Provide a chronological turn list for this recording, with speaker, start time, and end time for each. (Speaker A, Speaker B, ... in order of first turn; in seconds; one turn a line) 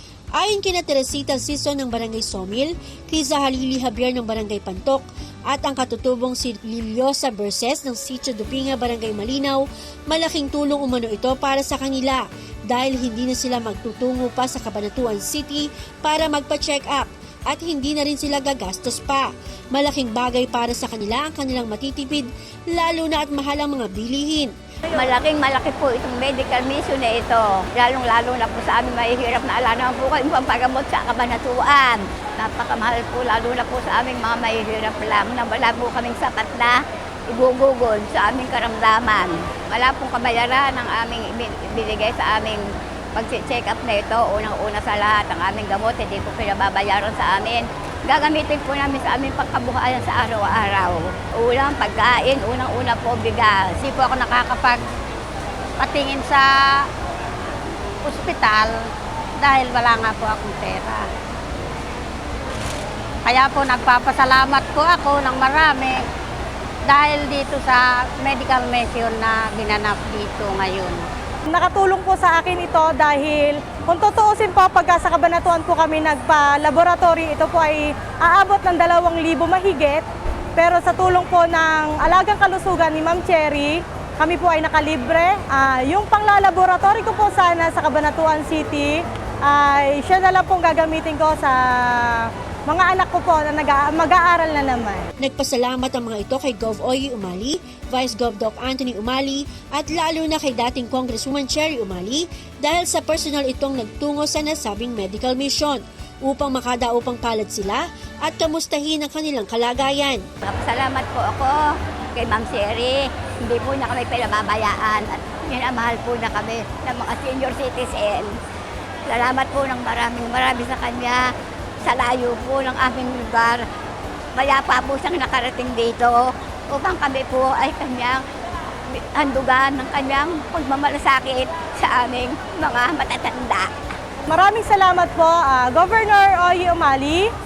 Speaker A: 0.3-24.5
Speaker B: 24.9-42.6
Speaker B: 43.1-53.8
Speaker C: 53.8-54.8
Speaker C: 55.8-56.8
Speaker C: 58.0-58.7
Speaker C: 59.4-61.1
Speaker C: 63.2-66.1
Speaker C: 66.9-71.1
Speaker D: 71.5-80.0
Speaker D: 80.6-95.1
Speaker A: 95.2-110.2
Speaker B: 110.4-111.6
Speaker B: 112.2-118.3
Speaker B: 119.1-121.2
Speaker B: 121.8-123.6
Speaker B: 124.3-128.2
Speaker B: 128.9-133.7
Speaker D: 134.3-137.3